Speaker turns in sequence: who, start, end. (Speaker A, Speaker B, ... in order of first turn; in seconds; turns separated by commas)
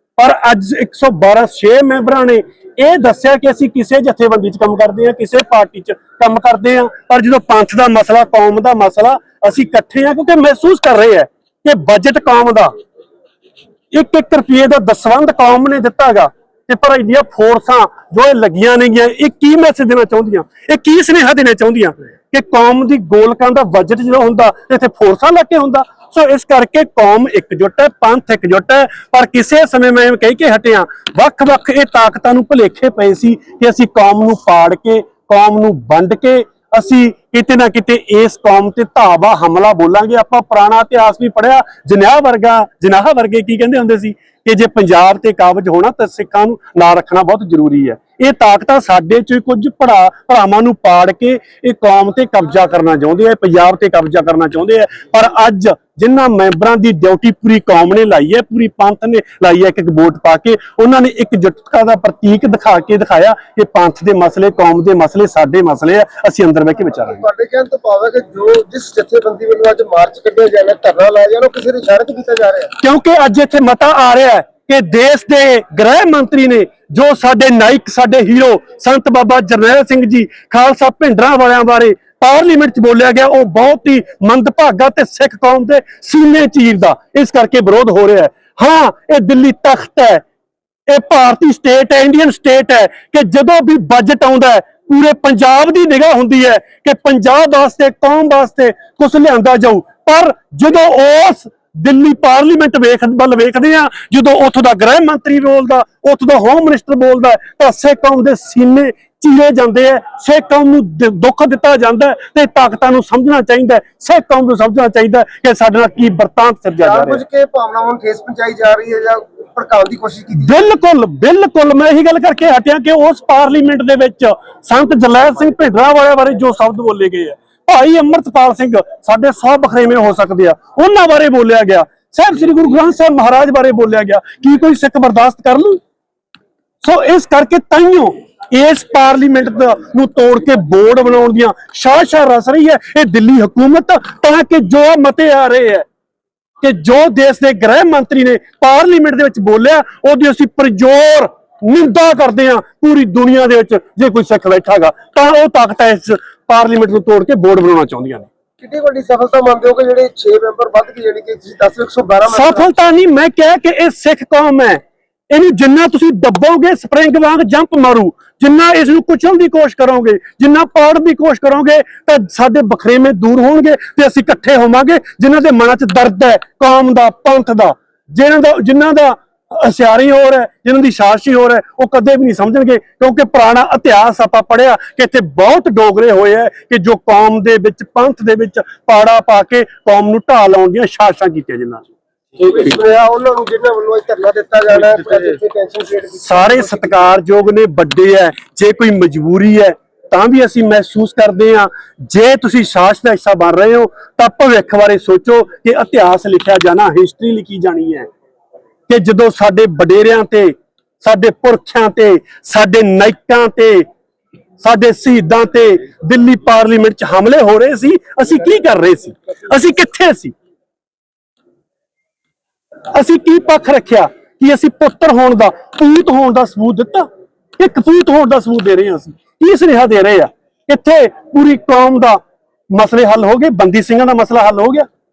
Speaker A: 0.2-12.7, Speaker A: 13.9-67.2, Speaker B: 67.1-72.7, Speaker A: 72.8-90.2, Speaker A: 90.9-117.2, Speaker B: 116.8-120.7, Speaker A: 120.4-135.8, Speaker A: 136.8-145.8, Speaker A: 146.6-158.3, Speaker B: 158.6-162.7, Speaker A: 162.3-191.9, Speaker B: 192.4-197.1, Speaker A: 196.2-208.1, Speaker A: 208.9-213.8, Speaker A: 214.6-220.3, Speaker A: 222.9-227.1, Speaker A: 227.6-232.2, Speaker A: 232.7-234.9